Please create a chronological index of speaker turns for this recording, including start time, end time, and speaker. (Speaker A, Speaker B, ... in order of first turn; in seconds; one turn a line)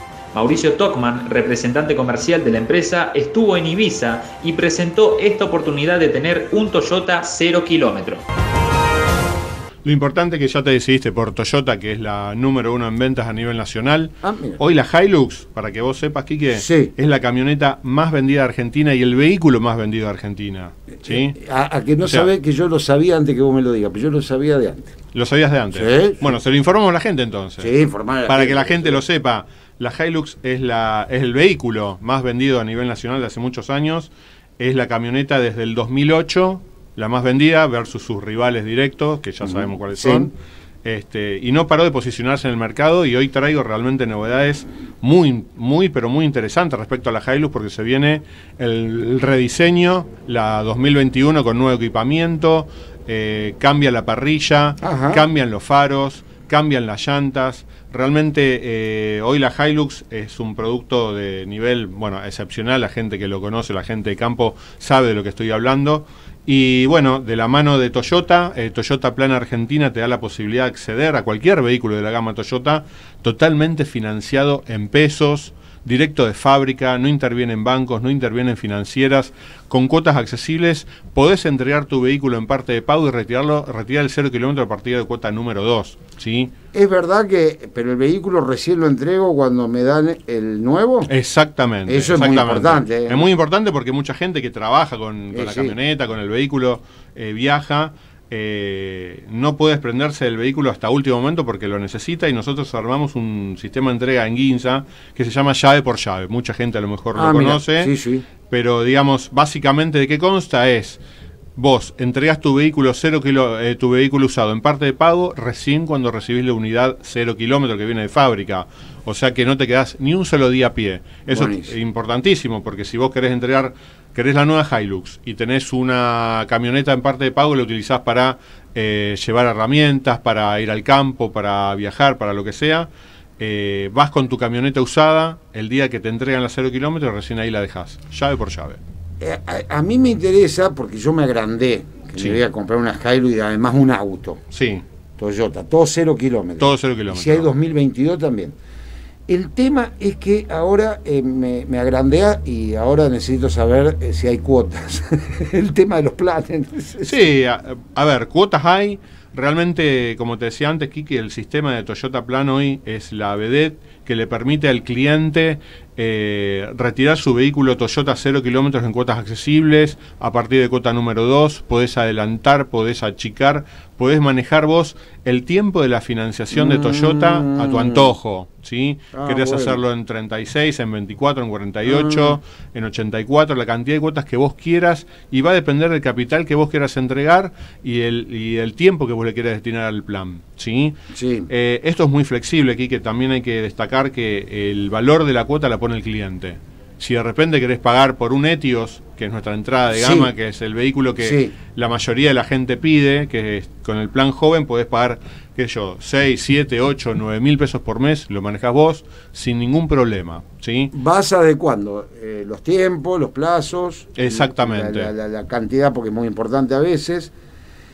Speaker A: 0.3-8.2
Speaker B: 9.8-21.4
Speaker C: 14.2-14.6
Speaker C: 16.5-16.9
Speaker C: 21.0-24.9
Speaker B: 22.0-22.3
Speaker B: 25.1-86.5
Speaker C: 25.7-26.4
Speaker C: 27.6-29.0
Speaker C: 39.4-40.3
Speaker C: 54.8-55.2
Speaker C: 86.7-91.1
Speaker B: 91.1-107.9
Speaker C: 91.9-93.3
Speaker C: 95.3-95.8
Speaker C: 107.2-108.3
Speaker B: 108.5-111.0
Speaker B: 111.6-138.8
Speaker C: 121.3-121.7
Speaker C: 139.2-144.4
Speaker B: 142.2-142.4
Speaker B: 144.5-144.8
Speaker C: 145.2-148.6
Speaker B: 146.6-147.5
Speaker C: 149.3-157.3
Speaker B: 157.0-191.0
Speaker C: 176.5-178.1
Speaker C: 179.1-179.8
Speaker C: 181.9-182.4
Speaker C: 191.1-191.5
Speaker B: 191.5-210.9
Speaker C: 199.9-200.3
Speaker C: 201.2-201.6
Speaker C: 210.9-217.3
Speaker B: 214.1-215.1